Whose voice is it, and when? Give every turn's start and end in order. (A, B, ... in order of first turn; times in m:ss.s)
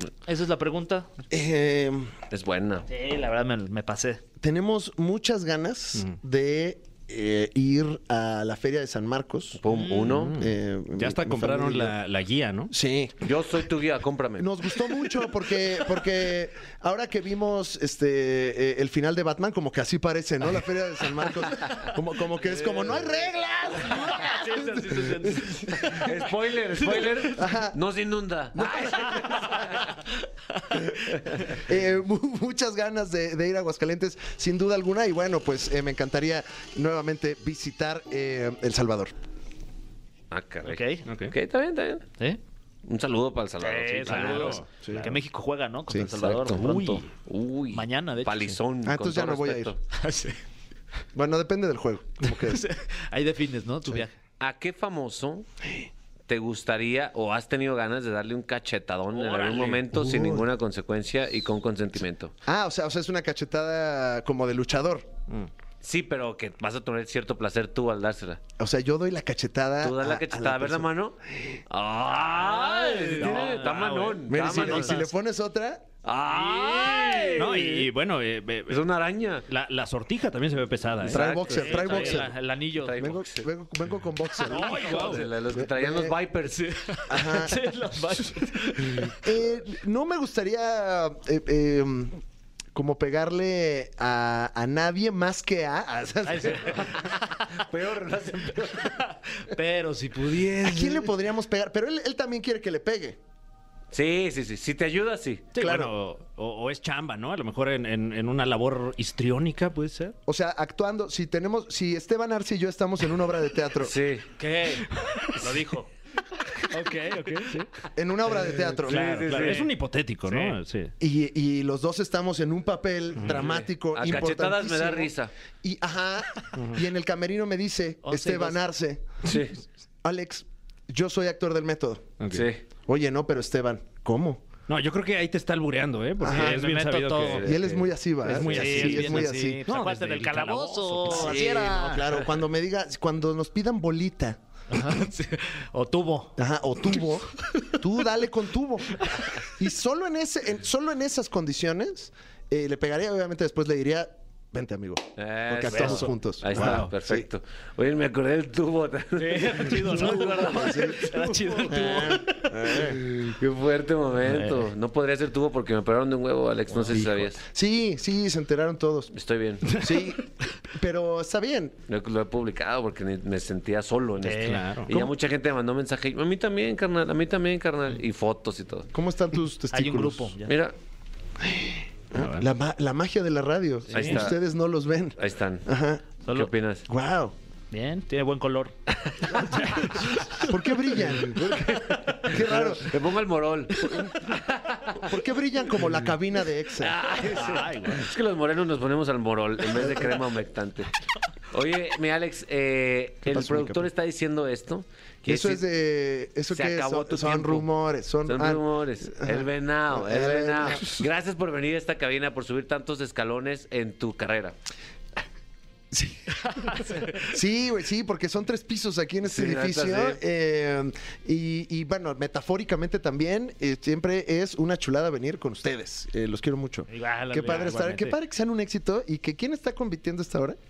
0:00.2-0:01.1 A
0:01.3-0:02.1 B
0:02.3-0:02.9 C
0:02.9-0:04.2 A
0:04.4-0:09.6 B
0:09.6-0:10.4 C
0:09.7-0:10.2 A
0:10.0-0:12.7 D
0:10.3-0:12.0 B
0:12.7-0:13.2 B
0:13.2-0:14.5 C
0:14.4-0:26.0 B
0:22.4-0:23.2 C
0:23.8-0:26.0 A
0:25.8-0:30.0 C
0:26.9-0:27.2 A
0:27.3-0:27.8 B
0:28.6-0:29.2 B
0:31.6-0:39.1 B
0:40.3-0:42.1 C
0:40.7-0:41.0 A
0:41.1-0:41.4 D
0:42.9-0:44.6 C
0:43.6-0:47.0 A
0:44.1-0:45.2 D
0:46.2-0:46.6 C
0:46.6-0:47.1 D
0:47.2-0:49.8 C
0:47.7-0:48.6 A
0:48.8-0:49.7 B
0:50.0-0:50.4 A
0:51.1-0:52.6 B
0:52.5-0:54.2 A
0:54.4-0:55.5 C
0:56.3-1:02.3 C
0:59.1-0:59.8 A
0:59.9-1:00.5 B
1:02.5-1:05.1 B
1:05.8-1:08.4 C
1:08.6-1:11.6 B
1:09.8-1:11.2 C
1:11.7-1:15.1 C
1:12.4-1:15.0 A
1:14.3-1:15.9 B
1:16.0-1:17.9 C
1:16.3-1:17.8 A
1:17.4-1:18.8 D
1:18.7-1:19.5 C
1:19.5-1:21.4 D
1:21.0-1:22.3 B
1:21.0-1:23.5 C
1:21.5-1:23.0 A
1:23.0-1:26.2 B
1:24.5-1:25.2 A
1:24.5-1:25.2 D
1:24.7-1:26.7 C
1:26.6-1:29.1 A
1:27.1-1:27.7 B
1:29.1-1:32.2 B
1:32.7-1:36.9 B
1:36.3-1:37.5 A
1:36.5-1:39.0 C
1:38.7-1:41.1 A
1:40.6-1:43.2 B
1:43.9-1:45.5 C
1:45.6-1:50.2 D
1:45.6-1:45.9 B
1:50.3-1:54.0 B
1:53.8-1:54.3 C
1:54.4-1:55.9 A
1:55.0-1:55.3 D
1:56.6-1:57.7 D
1:57.9-1:59.3 B
1:58.4-2:00.9 D
1:58.9-1:59.7 C
1:59.2-1:59.7 A
2:00.3-2:00.6 A
2:01.0-2:09.3 B
2:03.3-2:05.3 C
2:08.0-2:08.6 A
2:09.2-2:09.5 C
2:10.0-2:12.2 B
2:12.2-2:12.5 D
2:12.3-2:12.6 C
2:12.9-2:14.4 B
2:14.7-2:17.7 D
2:16.2-2:16.6 B
2:16.3-2:17.4 A
2:17.2-2:17.8 C
2:17.4-2:19.6 B
2:18.2-2:21.4 D
2:18.5-2:22.2 A
2:21.0-2:24.4 B
2:24.7-2:26.4 A
2:26.4-2:37.3 B
2:35.2-2:41.0 C
2:35.8-2:36.0 A
2:36.5-2:36.9 D
2:39.2-2:42.5 A
2:40.4-2:41.1 B
2:41.7-2:43.4 B
2:42.7-2:47.4 C
2:46.9-2:49.1 B
2:49.1-2:49.7 C
2:49.7-2:50.1 D
2:49.7-2:51.8 B
2:51.9-2:58.9 C
2:54.2-2:54.7 A
2:54.4-2:54.9 D
2:58.9-3:00.3 B
2:59.7-3:00.5 A
3:00.5-3:00.7 C
3:01.4-3:06.0 B
3:02.2-3:02.5 D
3:03.9-3:04.4 C
3:05.2-3:05.7 C
3:06.3-3:06.9 C
3:06.9-3:07.3 B
3:07.7-3:08.7 A
3:09.3-3:10.0 A
3:10.4-3:13.0 B
3:12.3-3:15.2 C
3:13.8-3:14.3 B
3:15.0-3:17.0 B
3:16.8-3:20.9 C
3:17.2-3:18.1 D
3:19.7-3:20.2 B
3:21.5-3:25.6 C
3:23.3-3:23.9 B
3:25.2-3:31.0 B
3:26.5-3:27.7 C
3:28.2-3:34.6 C
3:35.9-3:36.3 B
3:37.1-3:50.6 B
3:39.2-3:40.2 C
3:46.9-3:48.2 A